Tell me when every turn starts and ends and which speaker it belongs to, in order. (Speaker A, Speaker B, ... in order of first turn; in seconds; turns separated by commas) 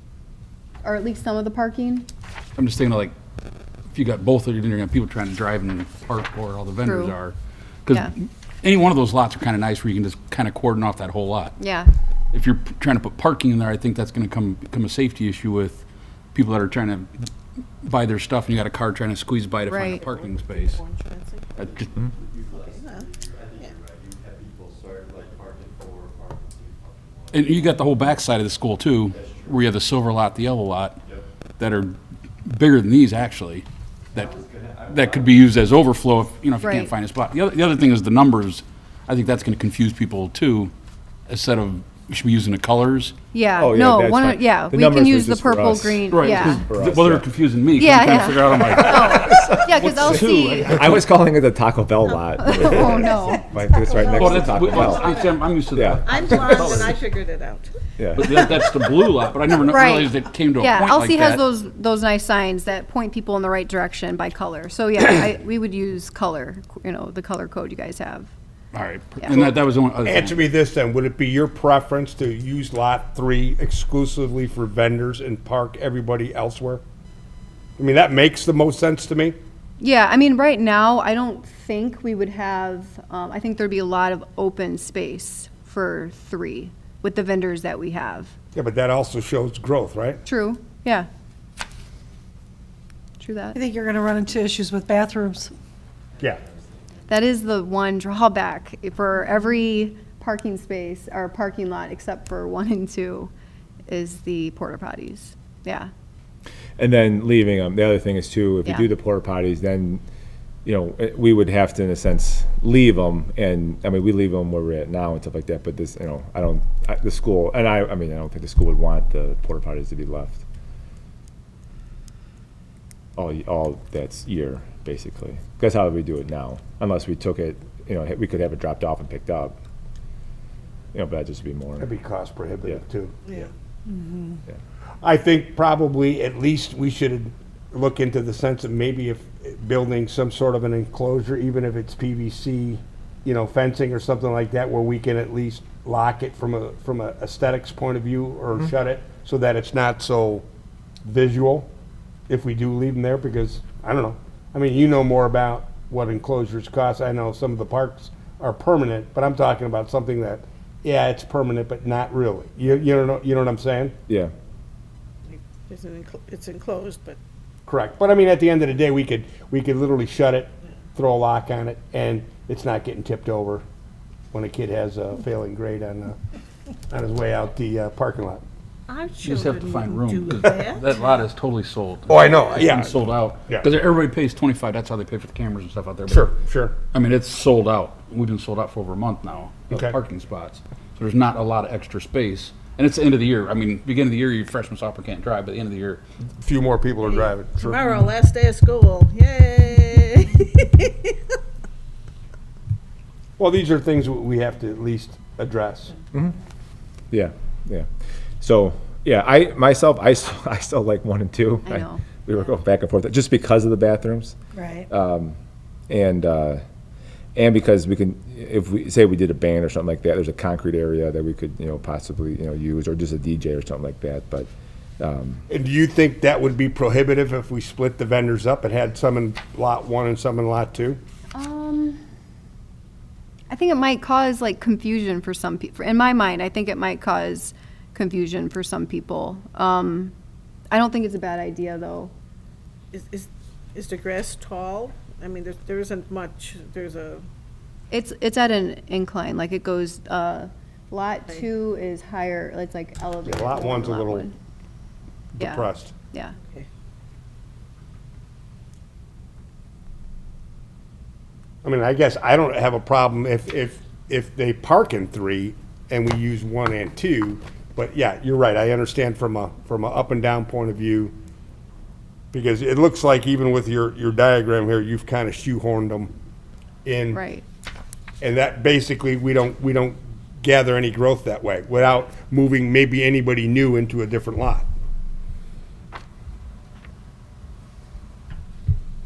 Speaker A: 0.8-2.1, Speaker B: 2.6-3.1, Speaker B: 3.9-7.3, Speaker A: 6.8-7.2, Speaker B: 7.9-11.6, Speaker A: 11.6-11.9, Speaker B: 12.3-17.3, Speaker B: 17.8-20.8, Speaker A: 19.7-20.1, Speaker C: 20.0-21.7, Speaker B: 21.6-22.1, Speaker D: 22.1-27.8, Speaker C: 22.4-23.8, Speaker B: 27.3-31.0, Speaker D: 29.1-29.6, Speaker B: 31.6-40.7, Speaker D: 34.1-35.5, Speaker A: 36.6-36.9, Speaker B: 41.3-43.2, Speaker A: 43.3-46.7, Speaker E: 43.6-47.2, Speaker B: 46.1-51.1, Speaker A: 47.8-50.8, Speaker E: 48.5-56.9, Speaker A: 52.4-53.4, Speaker C: 52.8-53.0, Speaker C: 53.9-55.3, Speaker B: 54.1-57.0, Speaker C: 56.0-58.6, Speaker E: 58.0-58.5, Speaker B: 58.2-61.5, Speaker A: 59.7-68.3, Speaker B: 68.7-70.4, Speaker F: 70.0-76.8, Speaker F: 77.8-79.4, Speaker A: 79.8-88.3, Speaker F: 88.5-90.2, Speaker A: 90.3-91.1, Speaker A: 93.2-93.6, Speaker G: 93.5-95.5, Speaker A: 97.1-103.3, Speaker A: 103.9-105.9, Speaker E: 106.8-110.0, Speaker E: 110.7-120.4, Speaker E: 123.2-129.6, Speaker E: 130.9-131.9, Speaker F: 131.8-133.2, Speaker F: 135.0-150.4, Speaker F: 151.1-151.7, Speaker F: 152.3-164.0, Speaker E: 164.1-164.3, Speaker C: 165.3-167.2, Speaker F: 167.7-173.6, Speaker F: 174.3-176.2, Speaker F: 176.9-178.4, Speaker C: 178.9-181.2, Speaker B: 179.2-186.3, Speaker F: 182.1-182.9, Speaker F: 186.1-186.8, Speaker B: 186.9-196.0, Speaker F: 189.7-190.0, Speaker F: 196.4-197.8, Speaker C: 197.1-201.2, Speaker F: 203.4-206.0, Speaker E: 207.1-207.9, Speaker E: 208.4-214.4, Speaker A: 211.7-212.1, Speaker G: 214.5-214.9, Speaker E: 214.9-215.4, Speaker E: 215.9-216.6, Speaker E: 217.4-225.5, Speaker F: 225.5-231.0, Speaker A: 231.3-232.0, Speaker A: 233.5-240.1, Speaker A: 240.7-242.1, Speaker C: 242.9-247.2, Speaker A: 247.9-254.3, Speaker F: 253.2-254.3, Speaker F: 255.4-255.9, Speaker A: 255.4-256.4, Speaker F: 261.6-271.1, Speaker F: 272.3-276.1, Speaker F: 276.9-277.2, Speaker A: 277.1-277.4, Speaker F: 278.2-284.7